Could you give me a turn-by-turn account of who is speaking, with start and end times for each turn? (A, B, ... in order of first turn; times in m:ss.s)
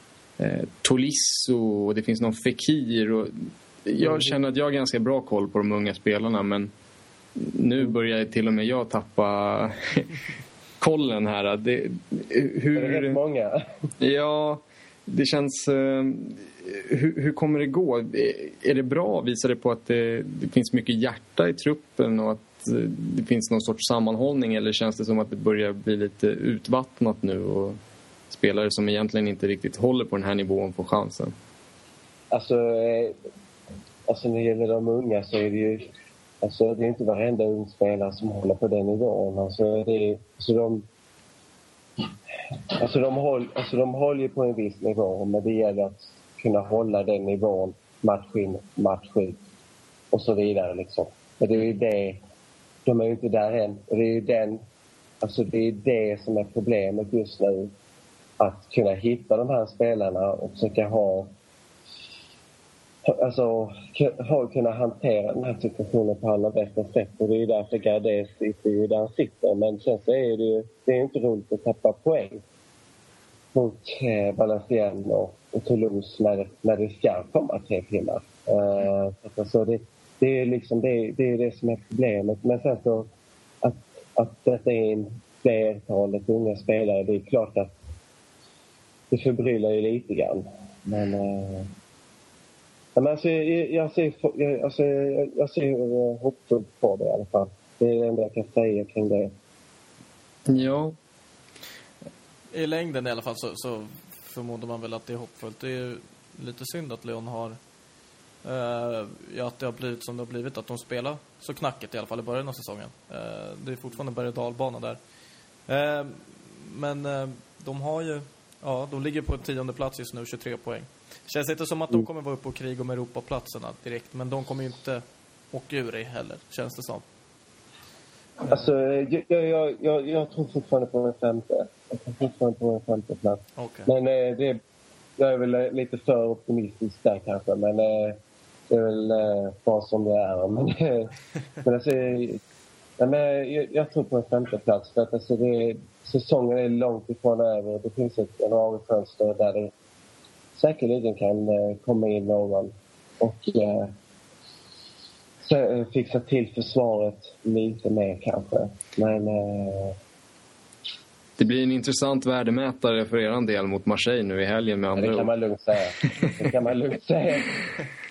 0:00.4-0:06.7 A
0:04.0-0:04.4 B
0:07.4-0:10.2 A
0:10.8-0:13.2 A
0:12.7-0:13.9 B
0:14.0-0:27.8 A
0:28.3-0:31.3 A
0:32.3-0:33.2 B
0:34.1-0:35.9 B
0:36.4-0:40.8 B
0:42.8-0:49.4 B
0:50.1-0:52.2 B
0:52.8-0:54.6 B
0:55.2-0:57.7 B
0:58.4-1:01.3 B
1:03.1-1:12.4 B
1:13.5-1:23.1 B
1:23.6-1:27.8 B
1:29.1-1:31.7 B
1:32.9-1:39.3 B
1:40.5-1:41.0 A
1:42.5-1:47.6 C
1:48.4-1:55.0 C
1:55.7-2:07.0 C
2:08.4-2:14.6 B
2:13.6-2:13.9 C
2:15.2-2:18.2 B
2:18.7-2:22.4 B
2:23.0-2:29.7 B
2:30.5-2:33.9 B
2:35.4-2:40.0 B
2:41.4-2:45.3 A
2:44.9-2:47.6 B